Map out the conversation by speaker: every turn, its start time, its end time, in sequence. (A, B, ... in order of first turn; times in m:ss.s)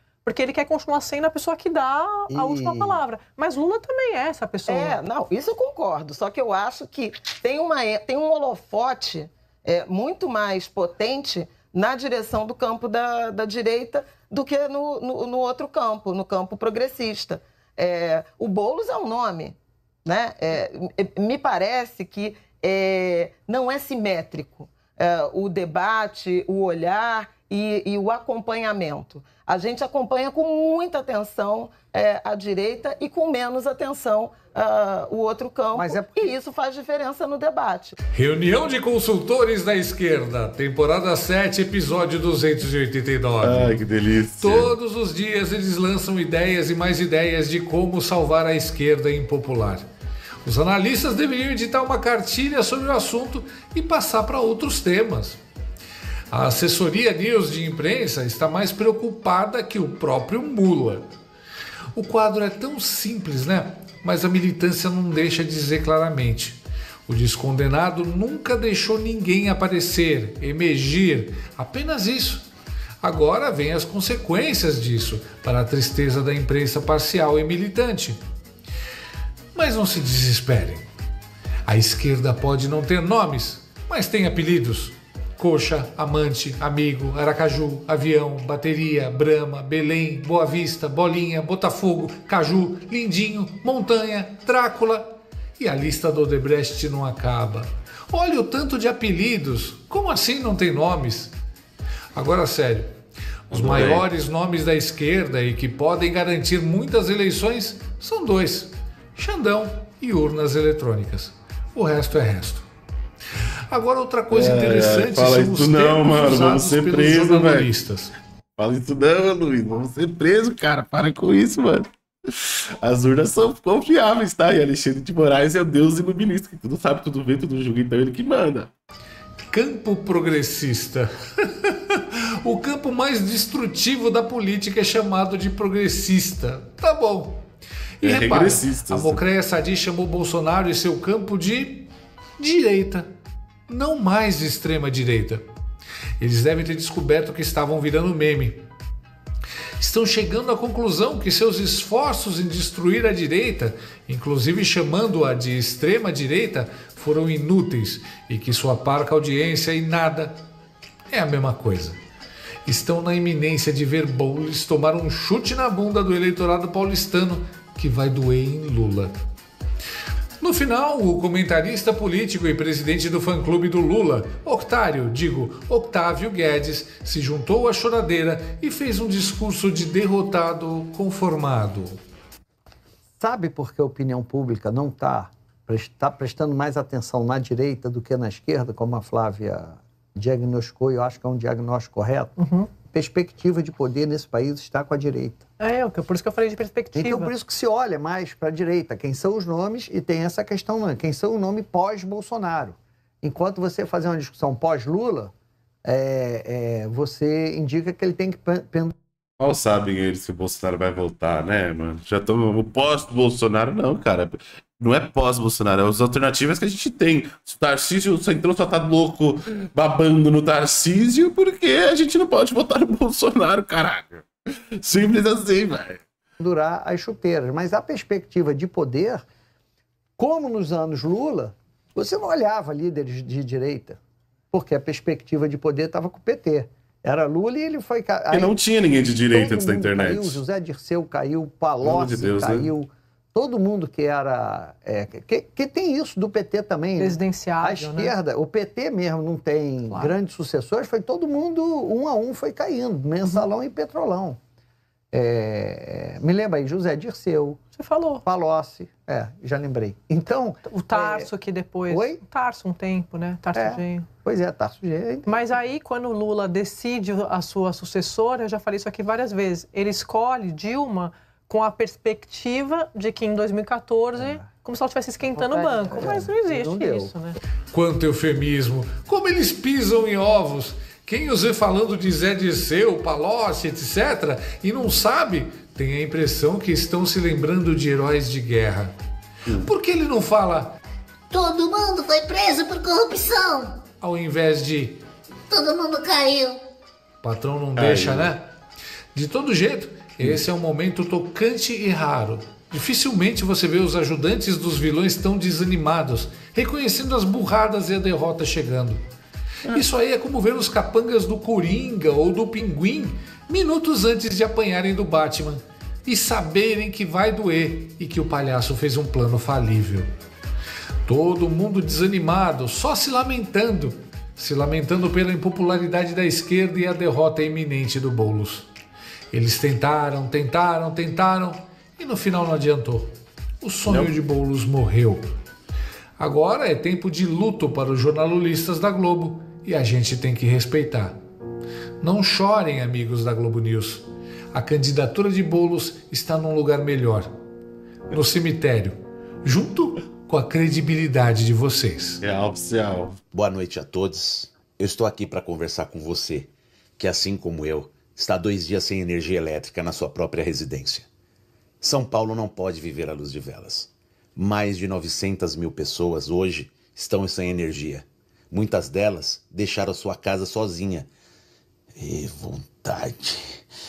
0:00.2-0:05.0 A
0:02.3-0:03.0 B
0:04.7-0:37.9 C
0:35.7-0:36.3 B
0:38.1-0:43.8 D
0:43.4-0:44.7 E
0:44.4-0:49.8 D
0:50.4-0:55.4 D
0:56.3-1:01.0 D
1:01.9-1:12.5 D
1:13.0-1:18.2 D
1:19.5-1:20.8 D
1:21.6-1:41.3 D
1:42.1-1:42.9 D
1:43.5-1:44.0 E
1:43.5-1:52.7 D
1:53.7-1:58.1 D
1:54.3-1:57.7 E
1:58.6-2:01.9 E
2:02.4-2:08.7 E
2:09.5-2:17.4 D
2:18.0-2:23.1 D
2:18.0-2:19.2 E
2:23.7-2:25.4 D
2:26.2-2:28.6 D
2:29.8-2:40.4 D
2:41.1-2:42.0 D
2:42.6-2:49.1 D
2:50.4-3:02.0 D
3:03.2-3:15.4 B
3:12.4-3:12.7 A
3:15.6-3:17.3 A
3:16.9-3:25.3 B
3:25.8-3:28.9 B
3:29.4-3:44.2 E
3:44.8-3:46.0 E
3:46.4-3:49.2 B
3:50.2-3:54.0 B
3:54.5-3:58.5 B
3:58.3-4:00.4 E
3:59.3-4:14.4 B
4:01.8-4:02.7 E
4:07.0-4:08.1 A
4:09.9-4:10.1 A
4:15.1-4:17.6 B
4:17.7-4:18.2 A
4:18.2-4:21.3 B
4:20.6-4:24.1 A
4:21.9-4:22.2 B
4:23.5-4:25.3 B
4:25.2-4:37.4 A
4:34.2-4:34.5 B
4:35.4-4:35.9 C
4:35.5-4:37.1 B
4:37.7-4:48.9 D
4:49.6-4:50.8 D
4:51.3-4:53.7 F
4:54.0-4:55.0 D
4:55.5-4:56.6 F
4:57.2-4:58.4 D
4:57.8-4:58.3 E
4:59.1-5:09.0 D
5:09.7-5:20.1 D
5:21.1-5:28.7 D
5:29.3-5:35.3 D
5:33.8-5:34.1 E
5:36.2-5:41.2 D
5:42.0-5:47.3 D
5:48.1-5:52.2 D
5:52.2-5:53.2 E
5:53.3-6:01.1 G
6:01.8-6:11.1 G
6:12.0-6:13.4 G